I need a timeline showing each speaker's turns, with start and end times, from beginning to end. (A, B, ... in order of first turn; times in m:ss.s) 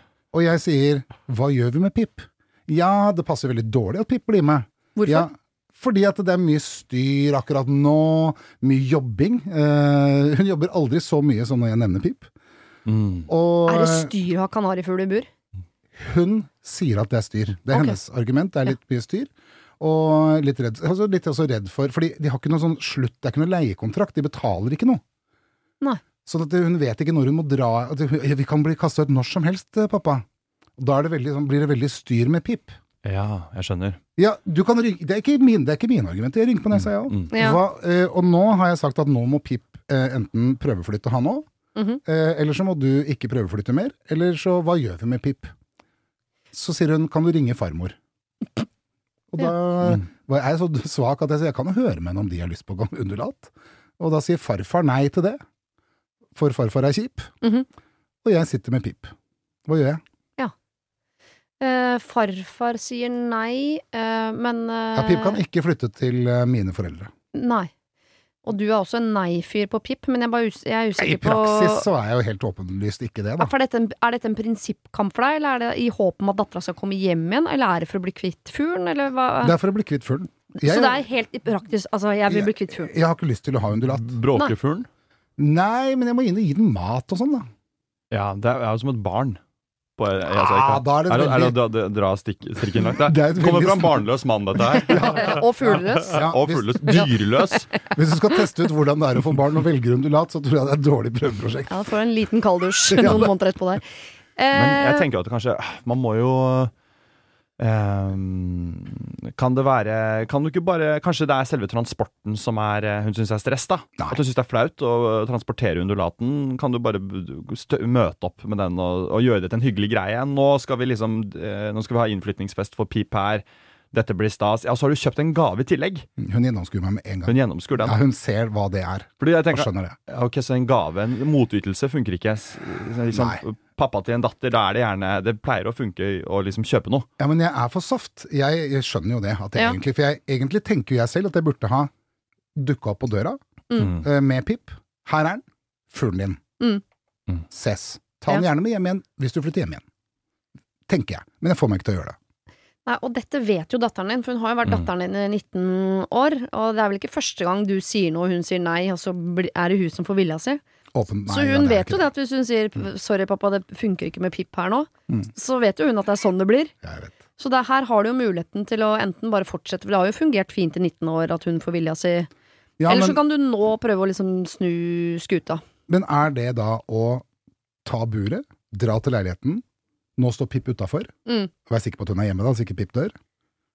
0:00.3-0:12.3 A
0:05.0-0:05.3 B
0:12.9-0:13.3 C
0:13.3-0:14.1 A
0:13.7-0:15.3 B
0:16.0-0:25.0 A
0:26.3-0:30.2 A
0:30.8-0:32.7 A
0:33.0-0:34.0 C
0:34.2-0:41.5 A
0:36.8-0:37.3 C
0:37.3-0:37.6 B
0:42.0-0:45.5 A
0:46.5-0:48.0 A
0:49.3-0:55.4 A
0:56.4-0:57.3 A
0:57.4-0:57.7 B
0:58.2-0:59.1 A
0:59.7-1:00.0 A
1:01.6-1:05.4 B
1:04.9-1:07.1 A
1:07.3-1:07.7 B
1:08.4-1:11.9 B
1:11.0-1:13.5 A
1:13.4-1:19.6 B
1:19.4-1:21.0 A
1:20.6-1:22.9 B
1:22.3-1:24.2 A
1:23.9-1:24.9 C
1:25.4-1:27.5 A
1:28.1-1:29.4 C
1:30.0-1:37.7 C
1:30.3-1:31.6 A
1:33.0-1:34.0 A
1:34.7-1:36.3 B
1:34.9-1:35.4 A
1:36.1-1:37.1 A
1:36.8-1:37.6 B
1:37.9-1:41.8 A
1:41.7-1:43.8 B
1:42.9-1:43.3 A
1:44.4-1:45.1 B
1:44.5-1:46.7 C
1:47.6-2:06.1 C
2:06.2-2:10.0 A
2:07.3-2:08.0 C
2:09.2-2:17.1 C
2:13.1-2:13.4 A
2:17.2-2:21.9 A
2:22.6-2:26.4 A
2:23.8-2:24.0 C
2:27.5-2:29.8 A
2:30.9-2:32.2 A
2:32.9-2:40.6 B
2:40.9-2:42.1 A
2:41.3-2:46.7 B
2:46.8-2:47.1 A
2:47.4-2:52.3 B
2:52.8-2:53.2 A
2:52.9-2:55.6 B
2:55.9-2:57.2 A
2:57.8-2:59.6 A
3:00.2-3:01.1 A
3:01.3-3:01.5 B
3:01.7-3:03.2 A